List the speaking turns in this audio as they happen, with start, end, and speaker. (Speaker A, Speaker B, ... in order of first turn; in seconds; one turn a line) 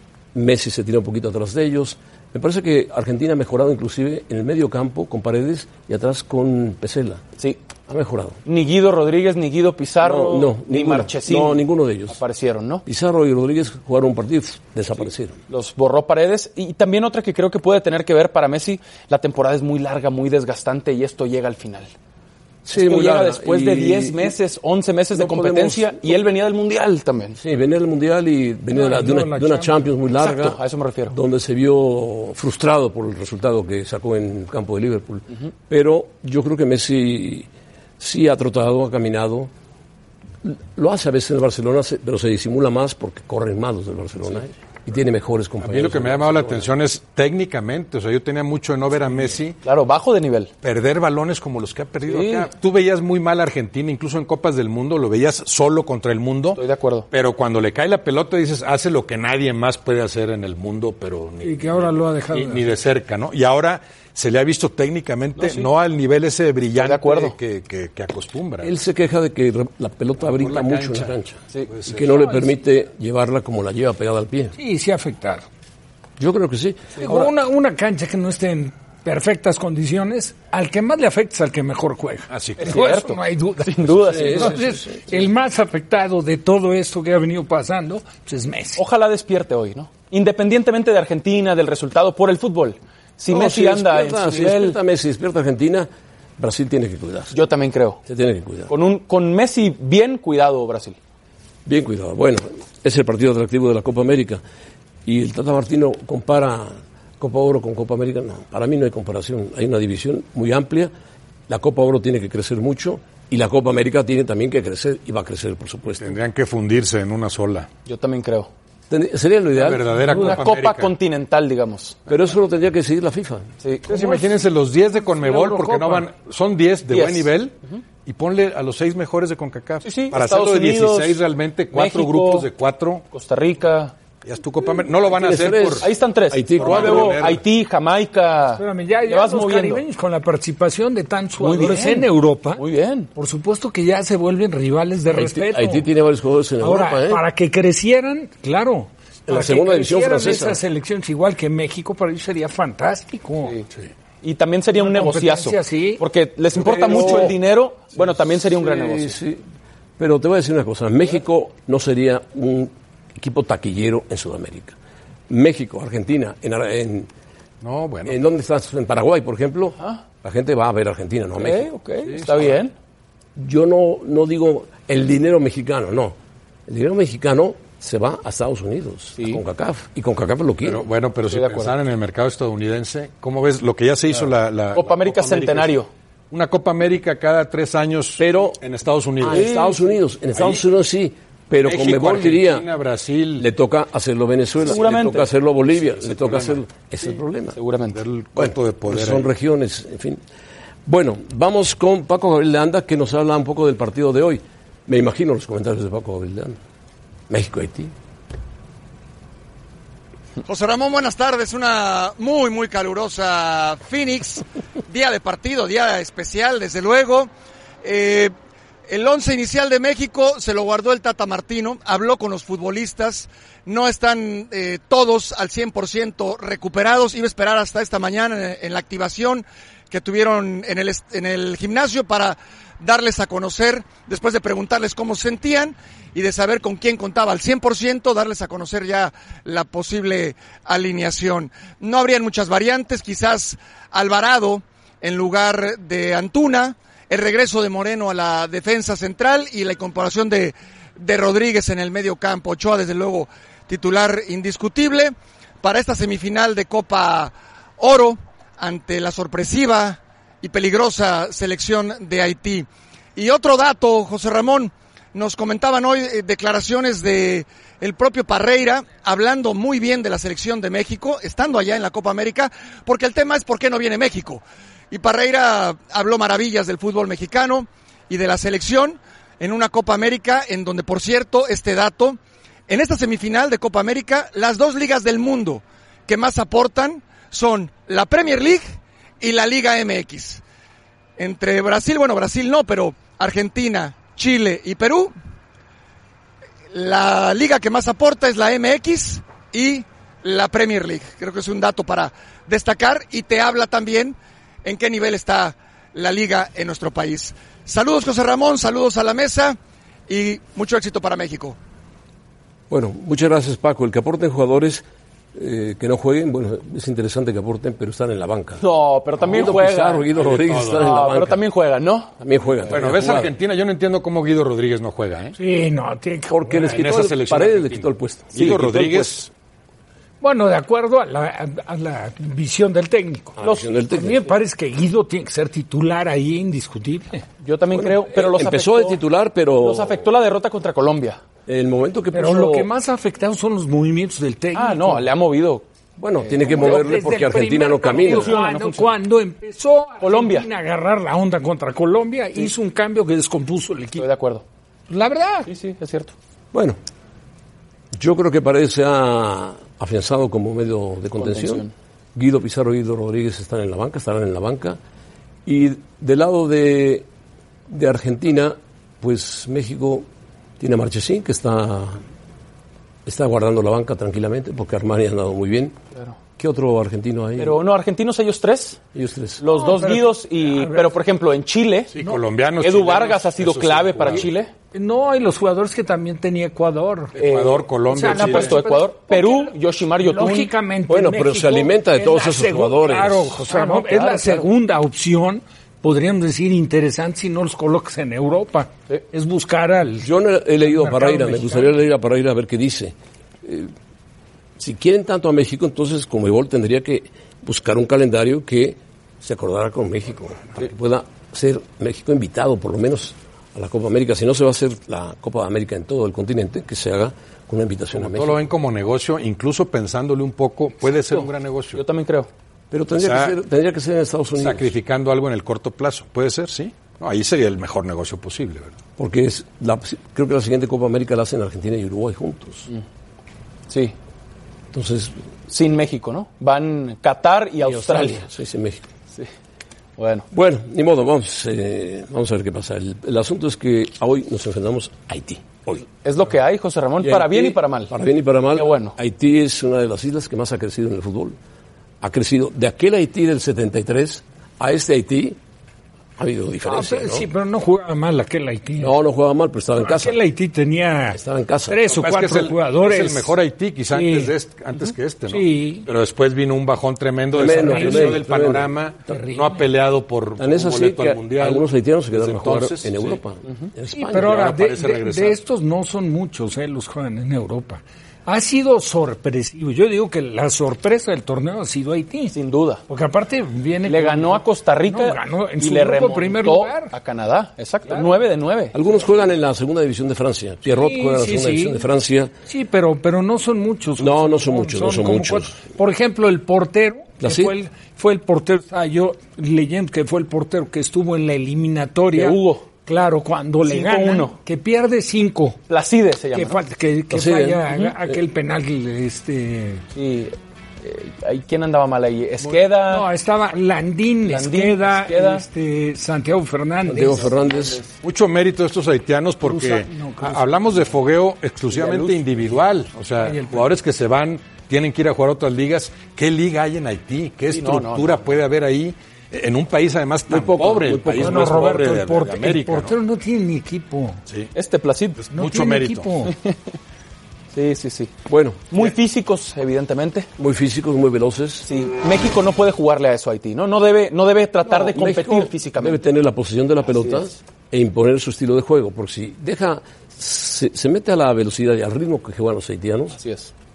Speaker A: 0.3-7.2
Speaker A: 7.9-8.4
Speaker B: 8.5-12.8
Speaker A: 10.0-12.2
Speaker A: 12.8-15.4
Speaker B: 15.5-21.9
Speaker A: 22.6-24.4
Speaker B: 22.7-27.4
Speaker A: 25.1-26.2
Speaker A: 27.4-30.6
Speaker C: 28.7-29.8
Speaker B: 30.2-31.2
Speaker A: 31.1-37.5
Speaker A: 38.0-39.5
Speaker A: 40.4-46.7
Speaker D: 45.6-49.6
Speaker B: 49.6-50.5
Speaker D: 50.6-68.7
Speaker B: 52.1-52.5
Speaker B: 56.6-57.1
Speaker C: 61.4-62.8
Speaker B: 66.8-67.3
Speaker A: 68.6-74.5
Speaker D: 70.3-71.1
Speaker D: 71.7-72.2
Speaker C: 74.6-75.5
Speaker A: 76.2-77.3
Speaker C: 77.0-88.8
Speaker D: 82.3-82.8
Speaker B: 82.6-84.6
Speaker A: 84.1-85.0
Speaker B: 88.8-94.8
Speaker A: 93.3-97.4
Speaker B: 97.3-98.0
Speaker A: 98.1-98.7
Speaker B: 98.7-101.0
Speaker A: 101.7-104.4
Speaker A: 105.0-110.9
Speaker A: 111.5-116.2
Speaker D: 116.0-117.7
Speaker B: 117.9-118.5
Speaker A: 118.9-119.9
Speaker D: 119.6-121.0
Speaker B: 120.1-122.0
Speaker A: 122.1-123.5
Speaker B: 123.6-124.3
Speaker D: 123.9-133.0
Speaker B: 125.2-126.0
Speaker B: 126.9-127.8
Speaker B: 129.8-132.5
Speaker B: 133.1-133.9
Speaker D: 134.2-135.9
Speaker A: 134.6-137.2
Speaker B: 135.8-139.8
Speaker D: 136.6-137.4
Speaker C: 138.6-142.6
Speaker B: 141.4-143.1
Speaker C: 143.2-145.8
Speaker A: 145.1-147.2
Speaker C: 146.6-153.6
Speaker A: 149.3-150.6
Speaker B: 154.2-159.2
Speaker C: 154.7-156.0
Speaker A: 156.6-157.4
Speaker A: 158.4-159.4
Speaker A: 160.0-164.8
Speaker A: 165.3-167.1
Speaker D: 167.6-168.2
Speaker A: 168.1-171.7
Speaker B: 171.4-172.7
Speaker D: 172.1-172.6
Speaker A: 173.4-176.2
Speaker A: 176.7-180.8
Speaker D: 180.6-185.8
Speaker B: 181.3-181.7
Speaker B: 184.8-185.9
Speaker D: 186.3-189.7
Speaker A: 188.2-188.6
Speaker A: 189.2-192.7
Speaker B: 189.3-189.8
Speaker D: 190.3-190.6
Speaker D: 191.7-193.4
Speaker A: 193.4-197.6
Speaker B: 194.7-195.3
Speaker D: 195.7-196.6
Speaker B: 197.6-198.0
Speaker D: 197.9-199.3
Speaker A: 198.4-200.2
Speaker A: 200.9-206.6
Speaker A: 207.3-207.9
Speaker E: 210.4-217.3
Speaker E: 217.8-218.3
Speaker E: 218.9-282.2
Speaker E: 282.7-288.6
Speaker E: 289.2-290.4
Speaker E: 291.2-295.1
Speaker E: 296.7-309.6
Speaker E: 310.1-311.6
Speaker A: 312.7-318.6
Speaker B: 318.6-320.1
Speaker A: 319.2-321.4
Speaker D: 320.2-321.1
Speaker B: 320.6-322.1
Speaker A: 322.2-323.3
Speaker D: 322.7-325.4
Speaker C: 325.4-326.9
Speaker A: 326.3-329.2
Speaker D: 326.7-329.3
Speaker B: 328.4-328.6
Speaker C: 330.2-333.4
Speaker A: 333.4-334.3
Speaker B: 333.4-333.7
Speaker C: 333.9-337.2
Speaker B: 337.4-339.0
Speaker A: 337.7-340.1
Speaker B: 339.6-341.2
Speaker A: 341.5-342.7
Speaker C: 342.1-345.1
Speaker B: 344.6-345.6
Speaker A: 346.0-348.3
Speaker B: 346.3-347.1
Speaker C: 346.5-354.1
Speaker B: 347.9-348.9
Speaker B: 350.0-350.5
Speaker B: 354.0-354.4
Speaker C: 354.9-355.5
Speaker B: 355.5-356.1
Speaker A: 356.5-356.8
Speaker A: 357.9-364.8
Speaker B: 361.2-361.7
Speaker A: 365.4-367.1
Speaker A: 367.7-370.1
Speaker A: 370.6-372.0
Speaker A: 373.1-375.8
Speaker A: 376.4-377.6
Speaker B: 377.4-378.8
Speaker A: 378.9-379.4
Speaker B: 379.4-381.9
Speaker C: 379.5-380.9
Speaker D: 381.9-384.3
Speaker B: 382.6-384.5
Speaker C: 384.7-387.1
Speaker D: 387.1-388.6
Speaker B: 387.2-390.5
Speaker C: 387.9-401.8
Speaker A: 390.9-393.5
Speaker B: 393.5-394.4
Speaker A: 400.0-403.7
Speaker A: 404.6-418.4
Speaker D: 417.9-421.8
Speaker B: 421.1-422.3
Speaker A: 422.7-424.7
Speaker D: 423.0-423.4
Speaker D: 424.4-428.8
Speaker A: 429.0-432.7
Speaker B: 433.7-433.9
Speaker A: 434.7-435.2
Speaker B: 435.5-438.2
Speaker A: 437.6-438.9
Speaker B: 440.0-440.3
Speaker A: 440.3-445.9
Speaker B: 446.0-447.9
Speaker A: 447.0-451.4
Speaker B: 448.6-449.0
Speaker A: 452.0-455.4
Speaker A: 456.2-457.3
Speaker C: 456.6-459.0
Speaker A: 458.8-460.2
Speaker C: 459.8-463.3
Speaker A: 461.1-461.8
Speaker D: 461.9-473.2
Speaker C: 463.9-464.3
Speaker C: 465.3-465.9
Speaker A: 467.3-468.7
Speaker C: 467.5-468.2
Speaker C: 469.1-469.6
Speaker A: 470.4-474.5
Speaker C: 473.9-482.4
Speaker D: 474.2-475.4
Speaker B: 482.3-482.8
Speaker C: 482.9-486.9
Speaker B: 483.9-488.7
Speaker A: 488.7-492.3
Speaker C: 490.7-491.9
Speaker C: 492.5-505.6
Speaker A: 494.0-495.6
Speaker A: 497.2-497.5
Speaker B: 502.1-502.7
Speaker B: 503.6-504.4
Speaker B: 505.7-506.6
Speaker C: 506.3-509.8
Speaker A: 507.1-508.2
Speaker B: 509.9-513.1
Speaker C: 512.8-517.3
Speaker B: 514.3-515.4
Speaker A: 516.9-517.8
Speaker B: 517.3-517.9
Speaker D: 518.0-533.0
Speaker C: 519.4-520.9
Speaker B: 521.7-522.6
Speaker C: 523.2-523.7
Speaker B: 527.5-528.3
Speaker A: 530.3-531.5
Speaker C: 531.2-534.2
Speaker B: 534.5-535.2
Speaker D: 535.2-536.1
Speaker C: 535.3-536.3
Speaker B: 537.5-538.1
Speaker A: 538.3-538.8
Speaker B: 538.7-540.3
Speaker A: 540.4-541.7
Speaker B: 541.7-546.0
Speaker A: 544.6-553.2
Speaker B: 546.9-547.3
Speaker B: 553.2-553.5